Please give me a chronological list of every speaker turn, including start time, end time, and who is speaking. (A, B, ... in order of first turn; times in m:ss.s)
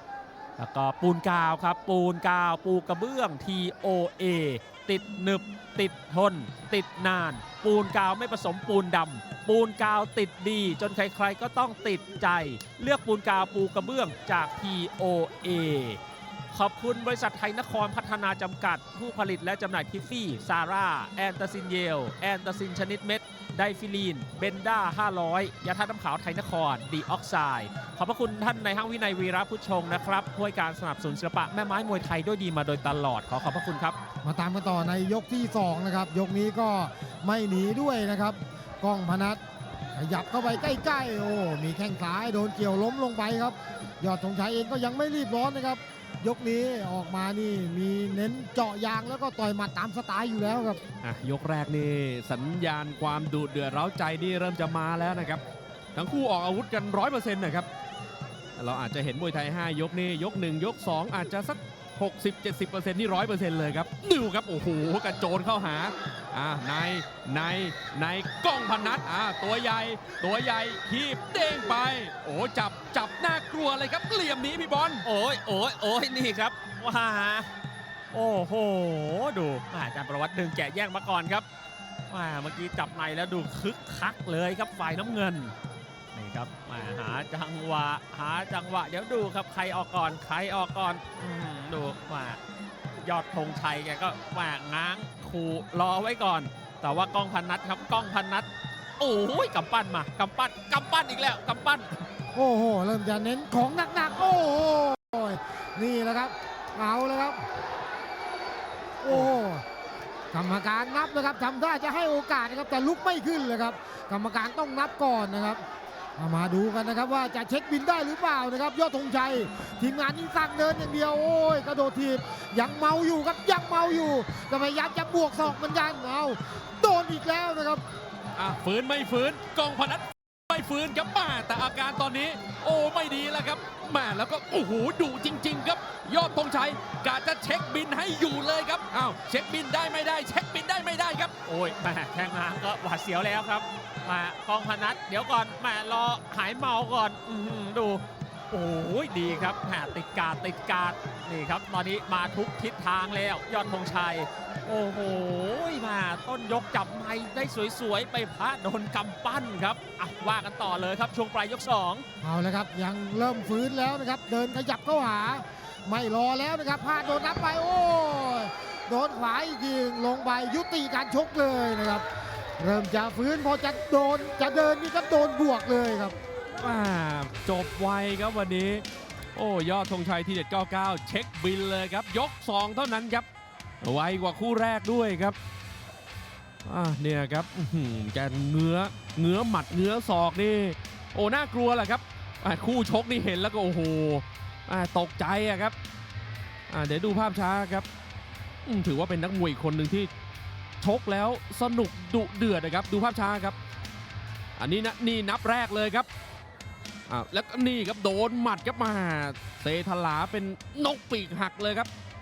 0:00.6-0:16.0 A
0:16.5-0:34.0 A
0:34.2-0:39.4 B
0:40.0-0:50.8 B
0:51.0-0:55.4 C
0:56.0-0:57.7 C
0:58.6-1:15.0 C
1:15.0-1:17.5 A
1:18.1-1:21.5 A
1:22.1-1:25.6 A
1:26.1-1:32.4 A
1:33.0-1:38.5 A
1:39.0-1:42.0 A
1:42.3-1:47.4 B
1:49.0-1:49.6 B
1:49.1-1:49.4 A
1:50.3-1:55.6 B
1:56.2-2:07.8 B
2:08.4-2:21.3 C
2:21.4-2:42.0 A
2:42.2-2:52.0 B
2:52.6-2:56.2 B
2:56.6-2:58.8 C
2:59.4-3:03.3 C
3:03.8-3:05.4 C
3:06.7-3:15.8 C
3:16.7-3:17.9 C
3:18.7-3:20.1 C
3:20.8-3:23.6 C
3:24.6-3:26.1 C
3:27.1-3:31.9 C